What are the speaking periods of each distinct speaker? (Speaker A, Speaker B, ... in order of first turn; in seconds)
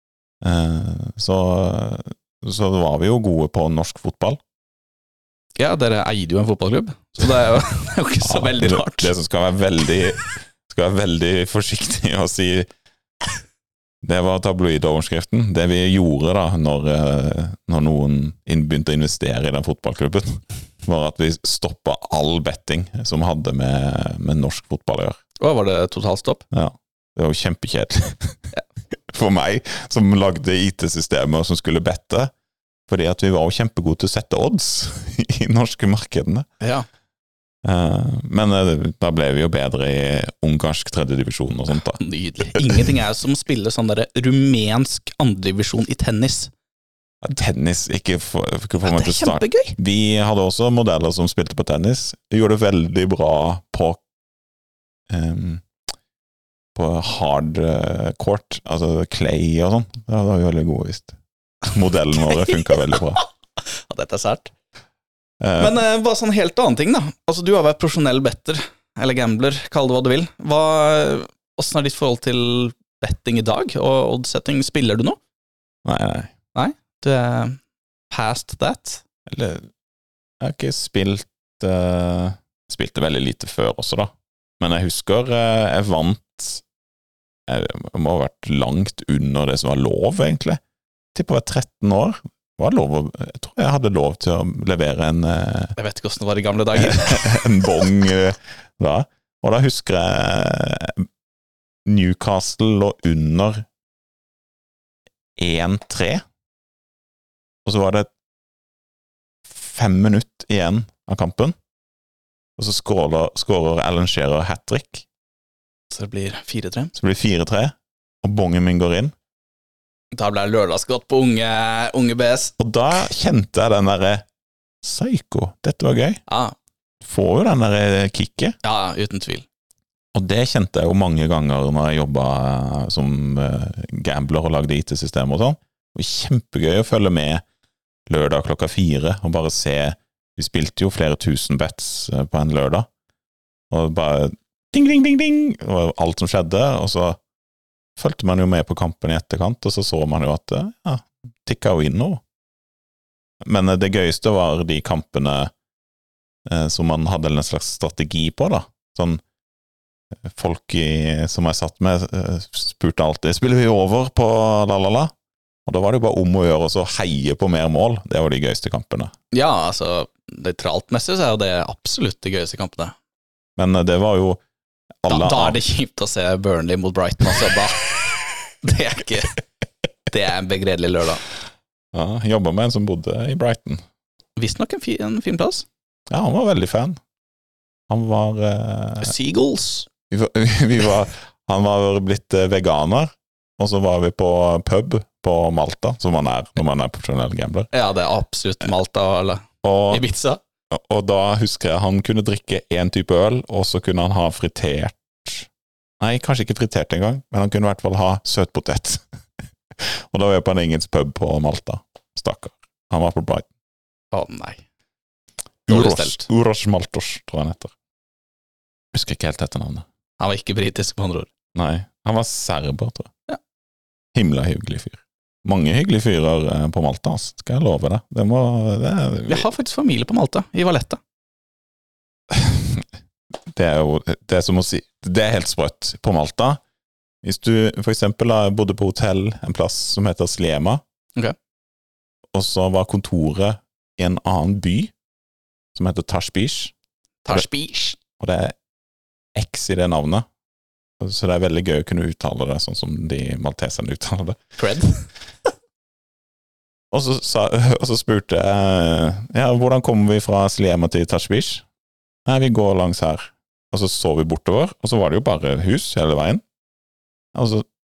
Speaker A: 0.4-4.4, 8.2-12.7, 14.0-25.2, 26.5-32.3, 32.9-36.5, 37.6-42.9, 47.2-54.0, 55.1-55.6, 56.7-61.1, 61.7-63.2, 65.4-65.8, 75.8-76.3, 79.3-79.7, 80.4-86.6, 87.5-90.6, 91.1-95.8, 96.7-101.1, 101.8-103.7, 105.4-106.2, 107.6-108.1, 109.5-111.5, 112.6-115.0, 116.9-119.1, 122.6-124.2, 124.8-126.2, 127.0-128.6, 130.1-137.4, 138.1-142.9, 143.7-147.2, 148.0-152.2, 153.4-155.5, 156.4-159.2, 160.2-165.1, 165.7-169.1, 173.6-174.4, 175.0-175.6, 181.9-183.8, 186.1-187.0, 187.9-189.1, 190.1-197.7, 199.6-200.0, 200.7-205.5, 206.0-209.0, 209.8-213.5, 215.7-217.7, 218.9-219.8, 221.5-223.1, 224.1-229.5, 232.3-232.8, 233.5-236.6, 237.2-240.8, 242.3-244.9, 245.7-246.7, 248.2-248.6, 249.3-250.2, 251.0-254.5, 256.9-261.6, 262.2-266.4, 267.3-267.6
Speaker B: 5.6-9.1, 25.4-26.4, 36.6-36.9, 42.0-46.5, 48.8-49.7, 63.6-64.5, 65.6-75.2, 76.5-77.6, 78.1-79.0, 95.8-97.6, 115.9-116.9, 120.1-122.5, 126.3-126.5, 128.6-129.4, 169.3-172.9, 175.1-179.4, 180.1-181.2, 184.4-185.7, 189.0-189.9, 197.7-200.4, 214.1-214.6, 215.7-216.2, 220.2-221.3, 229.3-231.0, 247.2-248.0, 254.6-255.1